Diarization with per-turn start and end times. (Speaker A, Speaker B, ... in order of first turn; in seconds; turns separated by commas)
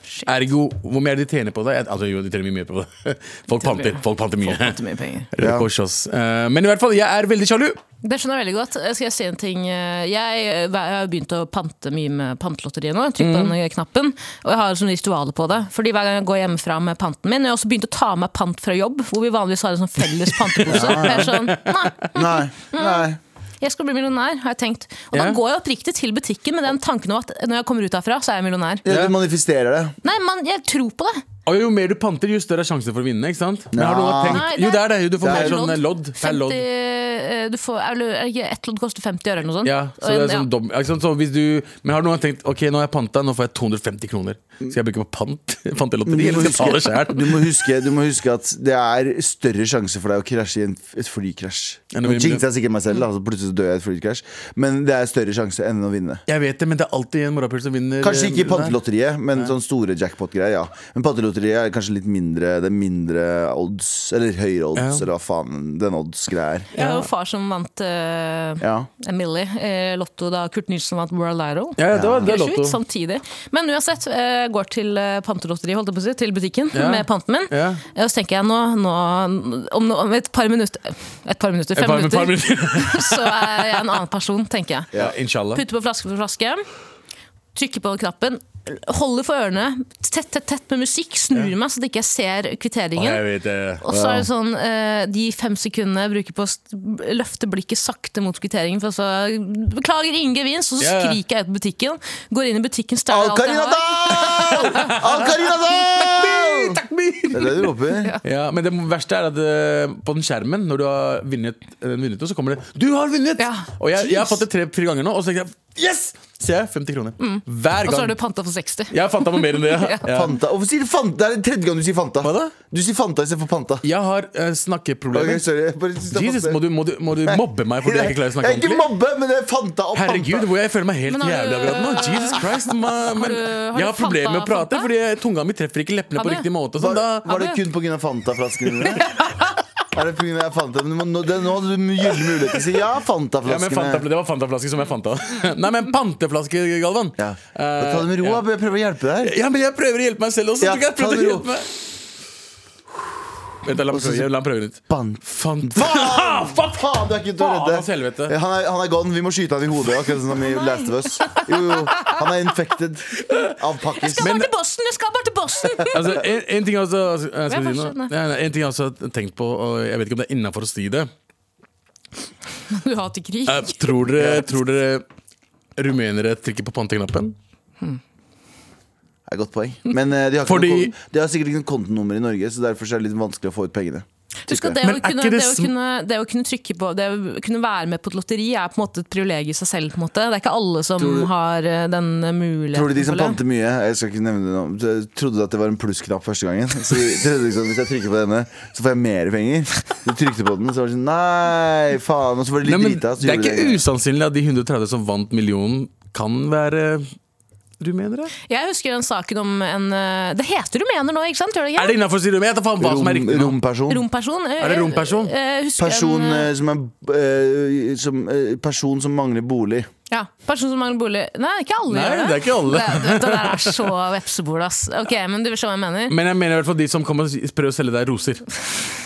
Speaker A: 0.3-4.8, Speaker B: 3.5-5.3, Speaker A: 5.3-7.8, Speaker C: 5.4-5.7, Speaker B: 8.0-23.1, Speaker A: 13.2-13.5, Speaker A: 20.3-21.9, Speaker C: 20.7-21.3, Speaker C: 22.1-23.2, Speaker B: 23.6-28.9, Speaker A: 25.1-25.4, Speaker C: 28.9-30.0, Speaker A: 28.9-29.1, Speaker B: 30.0-31.2, Speaker A: 31.4-36.6, Speaker C: 33.7-34.5, Speaker B: 34.3-40.5, Speaker C: 35.2-35.6, Speaker A: 39.6-47.5, Speaker C: 46.1-56.2, Speaker A: 51.9-52.4, Speaker A: 56.3-58.8, Speaker C: 58.0-66.7, Speaker A: 64.8-65.1, Speaker B: 66.7-84.9, Speaker A: 66.8-67.1, Speaker C: 68.6-68.9, Speaker A: 71.8-72.8, Speaker C: 71.9-72.3, Speaker A: 76.7-77.8, Speaker A: 81.8-83.8, Speaker A: 85.0-85.6, Speaker B: 85.5-86.7, Speaker B: 87.5-93.2, Speaker A: 93.0-93.8, Speaker B: 93.8-105.0, Speaker C: 93.9-94.3, Speaker A: 100.8-101.2, Speaker C: 103.1-108.2, Speaker A: 104.7-105.1, Speaker A: 105.9-118.2, Speaker B: 113.4-114.4, Speaker B: 117.2-120.0, Speaker A: 118.9-120.3, Speaker C: 120.1-123.8, Speaker A: 122.2-122.5, Speaker A: 123.8-125.5, Speaker C: 125.1-126.6, Speaker A: 126.1-128.9, Speaker C: 127.2-130.5, Speaker A: 129.9-137.4, Speaker B: 131.1-134.9, Speaker B: 136.2-136.5, Speaker C: 136.8-139.1, Speaker B: 139.1-139.5, Speaker C: 139.9-144.1, Speaker A: 143.4-148.4, Speaker C: 147.2-149.3, Speaker A: 149.2-151.8, Speaker C: 150.6-151.5, Speaker A: 153.6-156.8, Speaker C: 153.9-154.3, Speaker C: 154.9-164.3, Speaker A: 157.4-158.3, Speaker B: 160.4-161.5, Speaker B: 164.0-166.2, Speaker A: 164.2-164.5, Speaker A: 165.9-171.1, Speaker B: 167.5-168.1, Speaker B: 172.7-174.2, Speaker A: 173.5-175.0, Speaker C: 174.2-174.5, Speaker A: 175.8-177.3, Speaker C: 179.3-184.8, Speaker A: 180.5-180.9, Speaker B: 184.5-193.4, Speaker A: 184.8-185.7, Speaker C: 191.0-191.3, Speaker C: 192.7-203.8, Speaker A: 202.7-207.1, Speaker A: 207.8-208.3, Speaker B: 208.5-212.0, Speaker A: 211.8-213.6, Speaker C: 212.8-214.1, Speaker B: 213.9-216.5, Speaker A: 214.6-215.3, Speaker C: 215.8-219.9, Speaker B: 220.1-226.2, Speaker A: 221.9-223.9, Speaker A: 226.1-228.7